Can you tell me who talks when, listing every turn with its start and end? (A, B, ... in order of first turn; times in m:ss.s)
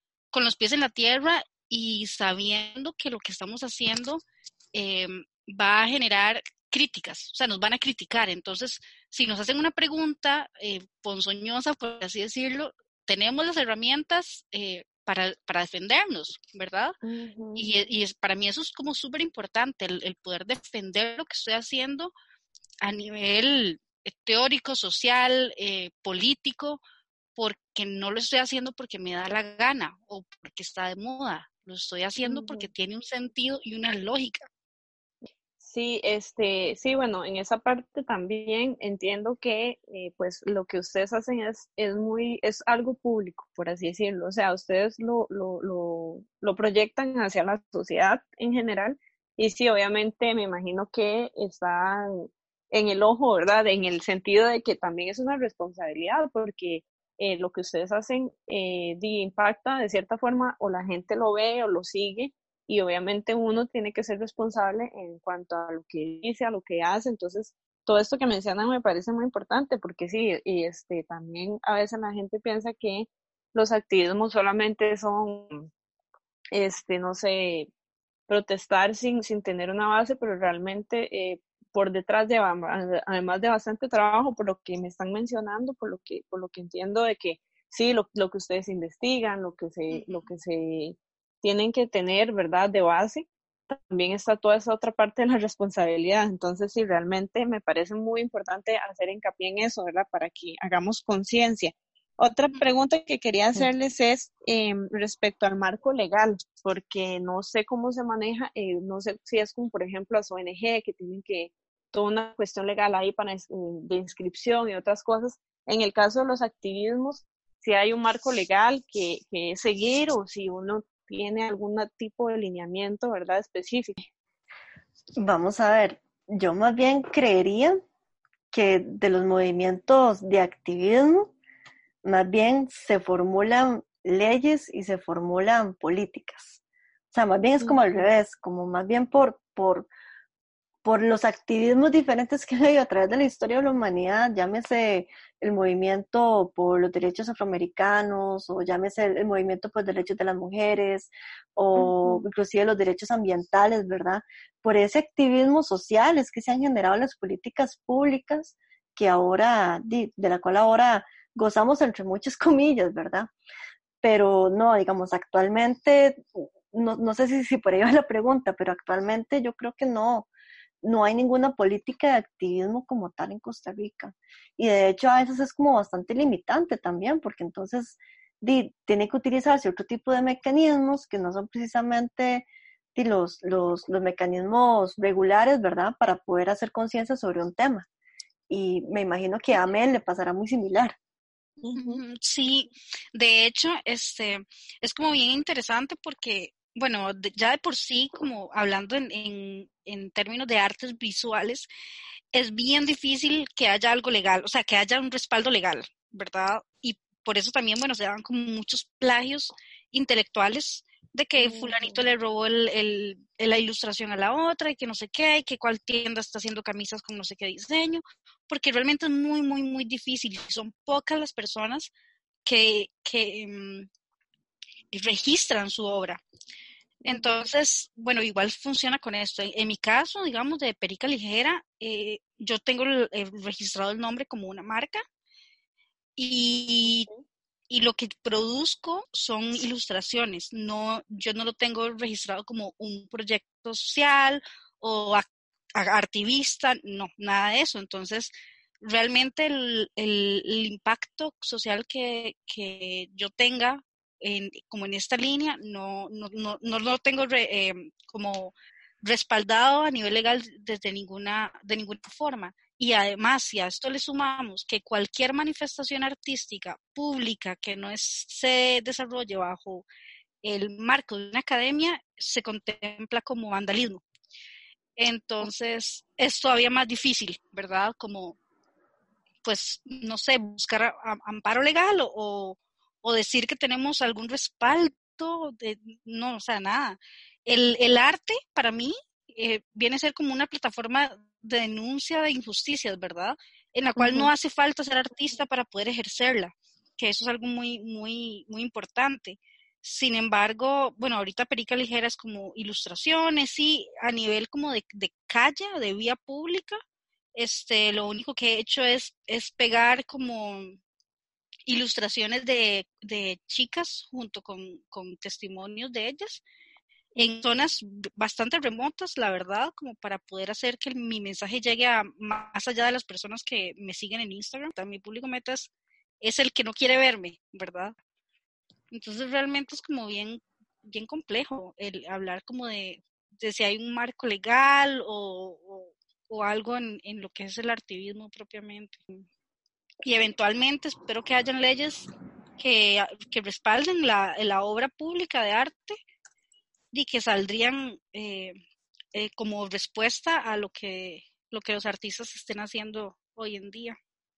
0:00.3-0:04.2 A
0:04.8-0:17.0 A
0:17.0-0:17.6 B
0:17.6-0:22.1 A
0:22.8-0:26.8 A
0:27.4-0:34.5 A
0:32.2-0:32.7 B
0:35.6-1:15.7 B
1:16.5-1:17.7 B
1:18.3-2:04.0 B
1:29.9-1:30.3 A
2:05.2-2:07.8 C
2:08.5-2:11.3 C
2:12.0-2:16.6 C
2:17.1-2:19.9 C
2:17.6-2:18.0 B
2:20.8-2:43.3 C
2:31.7-2:32.3 B
2:44.0-2:50.3 C
2:50.8-3:07.9 C
3:08.5-3:11.0 C
3:11.6-3:12.0 B
3:11.8-3:21.7 A
3:22.3-3:41.9 A
3:31.4-3:32.0 B
3:42.5-3:43.9 A
3:44.9-3:46.2 A
3:47.1-3:55.0 A
3:56.2-3:57.1 A
3:57.7-4:05.2 A
4:05.8-4:29.9 A
4:30.4-4:34.0 A
4:35.0-4:38.4 A
4:39.4-5:06.8 A
5:07.4-5:10.8 A
5:11.7-5:16.4 A
5:17.2-5:28.0 A
5:28.9-5:39.3 A
5:40.0-5:46.0 A
5:46.9-5:48.6 A
5:49.2-5:54.0 A